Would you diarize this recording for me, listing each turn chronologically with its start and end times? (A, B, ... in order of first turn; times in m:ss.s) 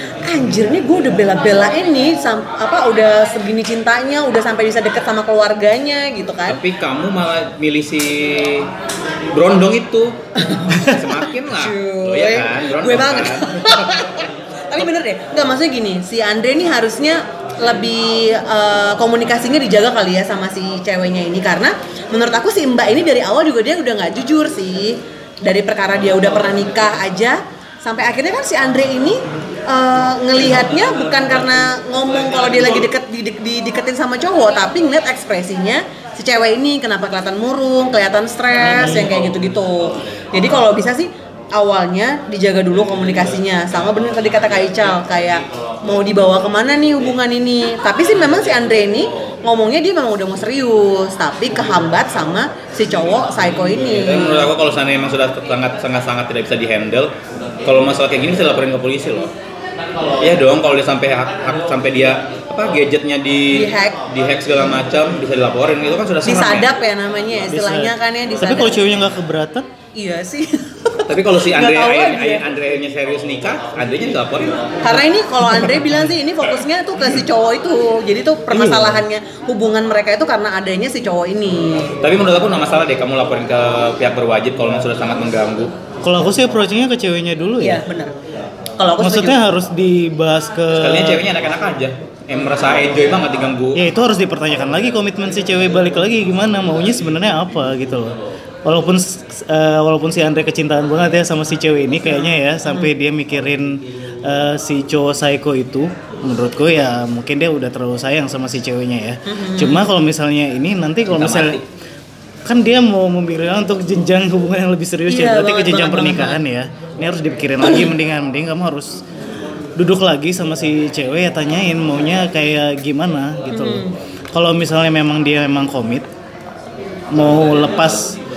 0:00.2-0:06.6 A
0:06.5-0:08.7 B
0:09.3-0:10.2 B
0:10.4-0:10.8 A
0:10.8-0:14.0 B
0:11.5-0:54.5 A
0:53.8-0:57.1 B
0:57.6-0:59.3 B
1:00.2-1:06.7 B
1:03.5-1:04.0 A
1:06.2-1:08.8 A
1:07.5-1:09.7 C
1:10.0-1:12.4 A
1:11.1-1:14.6 B
1:14.8-1:22.0 A
1:18.5-1:19.0 C
1:22.0-1:25.7 B
1:26.0-1:27.8 C
1:27.6-1:28.1 A
1:28.8-1:29.4 A
1:29.0-1:31.2 C
1:30.8-1:33.8 B
1:33.7-1:51.6 C
1:42.2-1:42.9 A
1:49.3-1:49.9 A
1:51.1-1:51.6 B
1:52.4-1:59.0 C
1:55.1-1:56.4 A
1:57.6-1:57.9 A
1:59.8-2:06.0 C
2:03.5-2:04.0 A
2:07.1-2:08.2 C